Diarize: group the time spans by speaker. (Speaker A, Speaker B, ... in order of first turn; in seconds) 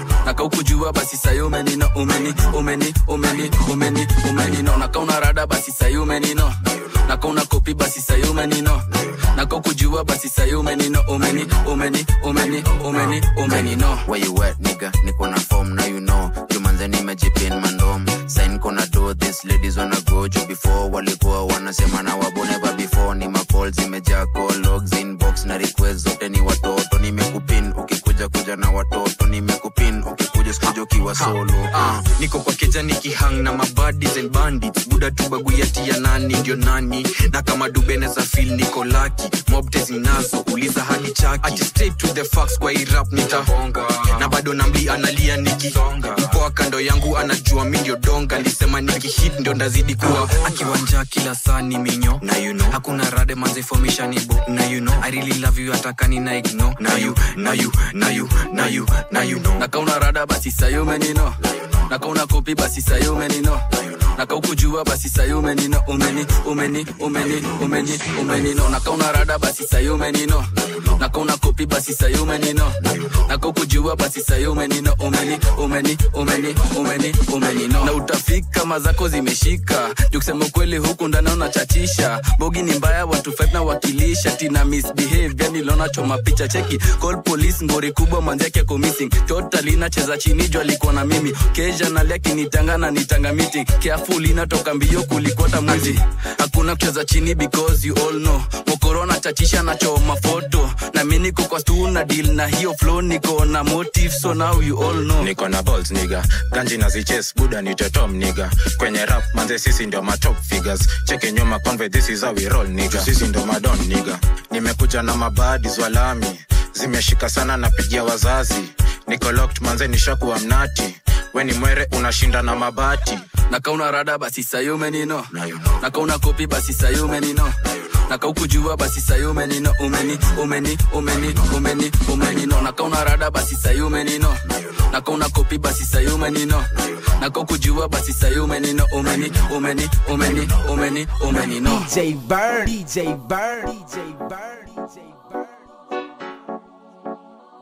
Speaker A: 0.2-6.5, 7.1-8.8, 9.3-14.0, 59.5-61.3, 61.9-63.6, 64.2-72.8, 73.3-105.3, 123.5-125.3, 125.8-127.5, 128.1-134.4, 134.9-136.7, 137.2-141.9
Speaker B: 13.5-32.0
Speaker C: 32.3-59.5
Speaker D: 105.2-123.2
Speaker E: 141.6-146.0